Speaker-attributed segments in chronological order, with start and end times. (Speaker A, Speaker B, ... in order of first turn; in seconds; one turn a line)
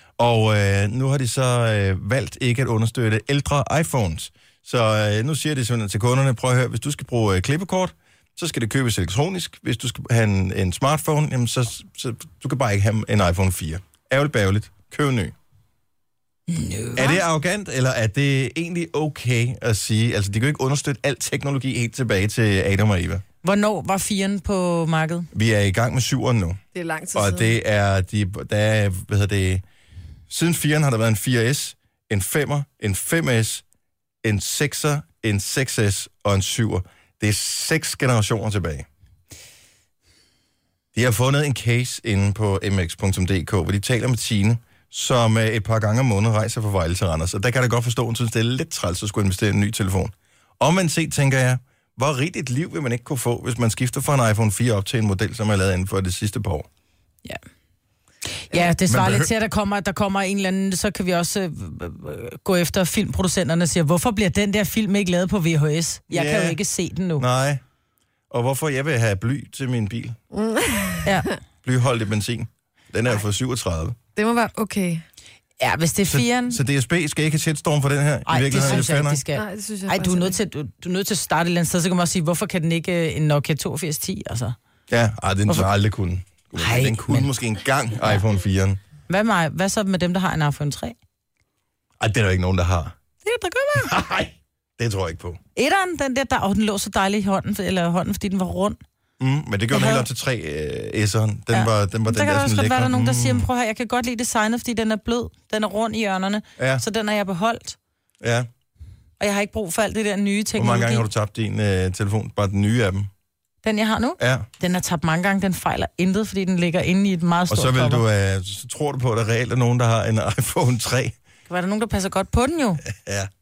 Speaker A: 0.2-15.3
Speaker B: 16.5-17.2
Speaker A: 16.9-23.2
Speaker B: 23.4-25.3
Speaker A: 25.3-26.6
Speaker C: 26.7-27.6
Speaker A: 27.1-29.6
Speaker A: 30.3-33.6
Speaker A: 34.2-38.9
Speaker A: 40.9-56.7
Speaker B: 58.4-67.2
Speaker A: 58.9-59.3
Speaker A: 66.1-66.6
Speaker A: 67.2-67.6
Speaker A: 68.3-70.2
Speaker C: 70.3-71.3
Speaker B: 71.0-71.3
Speaker A: 71.6-74.0
Speaker C: 74.2-75.0
Speaker B: 75.6-76.6
Speaker A: 76.1-79.2
Speaker B: 78.2-84.5
Speaker C: 79.3-80.4
Speaker A: 84.9-88.8
Speaker B: 86.6-87.3
Speaker B: 89.1-90.9
Speaker A: 92.0-93.0
Speaker B: 93.2-93.9
Speaker A: 93.8-95.4
Speaker B: 95.5-98.8
Speaker A: 99.2-103.5
Speaker B: 99.7-100.1
Speaker B: 101.5-107.8
Speaker A: 106.6-106.8
Speaker A: 108.2-108.5
Speaker B: 109.2-111.0
Speaker A: 110.6-113.1
Speaker B: 113.6-118.0
Speaker A: 114.2-114.5
Speaker A: 117.5-121.2
Speaker B: 121.5-122.8
Speaker A: 122.9-123.3